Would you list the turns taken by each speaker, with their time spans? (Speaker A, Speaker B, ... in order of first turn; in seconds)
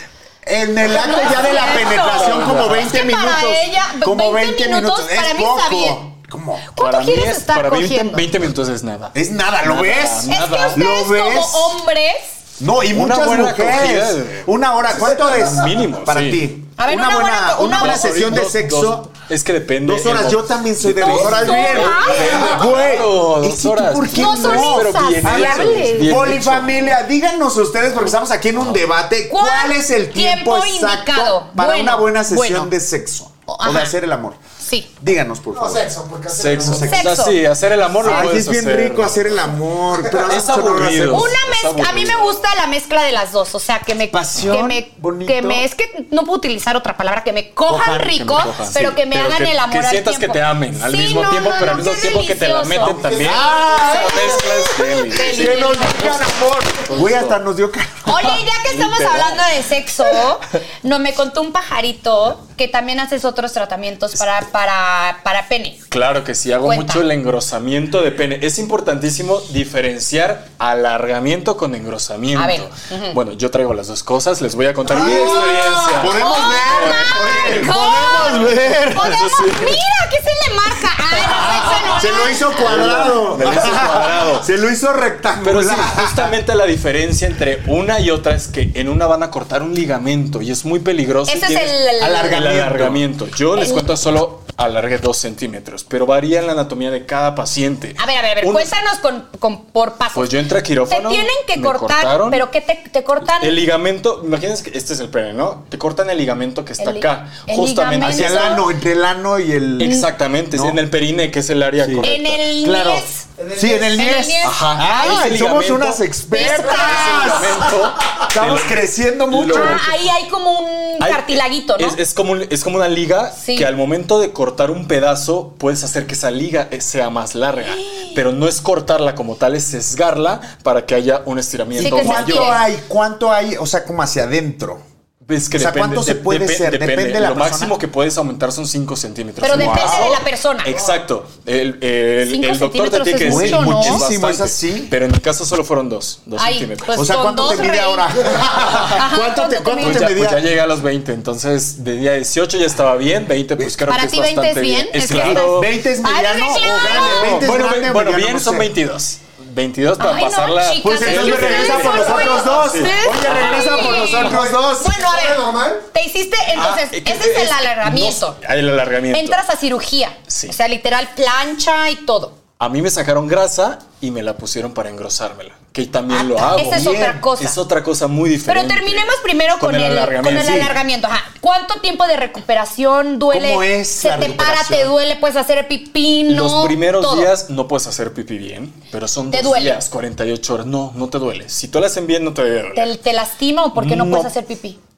Speaker A: 0.4-6.7, 9.1-11.8, 12.6-19.1, 19.8-34.4, 35.0-35.9, 36.6-37.2, 38.0-41.4, 44.1-45.6, 47.7-48.2, 52.8-58.3, 74.8-79.5, 81.2-86.3, 92.0-93.0, 108.0-110.0, 110.5-110.8, 111.8-119.9, 131.8-134.8, 135.5-137.8, 139.5-140.2, 143.2-144.9, 146.9-150.5, 155.0-158.7, 160.8-165.0, 176.4-177.2, 180.2-180.8, 183.3-184.9
Speaker B: 0.8-6.0, 6.7-8.2, 10.3-12.3, 16.8-18.3, 21.0-22.3, 24.1-26.2, 29.3-32.7, 33.5-33.9, 34.6-34.9, 36.8-37.4, 41.1-53.0, 53.8-56.3, 58.0-65.8, 66.6-67.0, 72.3-73.2, 76.0-82.7, 91.3-92.4, 93.5-93.8, 98.0-103.6, 106.8-108.7, 109.8-110.1, 112.0-113.2, 113.9-115.3, 116.3-117.5, 119.5-122.0, 123.4-123.7, 127.7-128.1, 131.8-132.6, 139.4-140.7, 142.2-144.0, 146.4-148.1, 148.7-150.1, 153.9-157.4, 160.0-168.4, 169.1-172.4, 176.1-177.6, 178.5-187.3, 189.3-189.8, 192.7-194.8
Speaker C: 1.4-2.9, 6.8-10.8, 12.9-16.5, 17.7-27.0, 36.3-39.5, 40.1-42.4, 48.0-57.4, 58.2-59.6, 65.9-79.8, 81.2-84.5, 85.4-98.7, 100.1-102.4, 103.2-108.7, 109.8-112.5, 114.4-120.0, 121.0-132.6, 135.2-147.1, 149.8-155.7, 156.7-164.2, 166.5-169.4, 170.3-170.5, 172.6-180.7, 186.3-192.9, 193.7-194.3
Speaker D: 22.2-22.6, 35.5-36.9, 40.1-40.3, 52.9-54.0, 113.4-114.0, 161.9-162.9, 163.4-165.8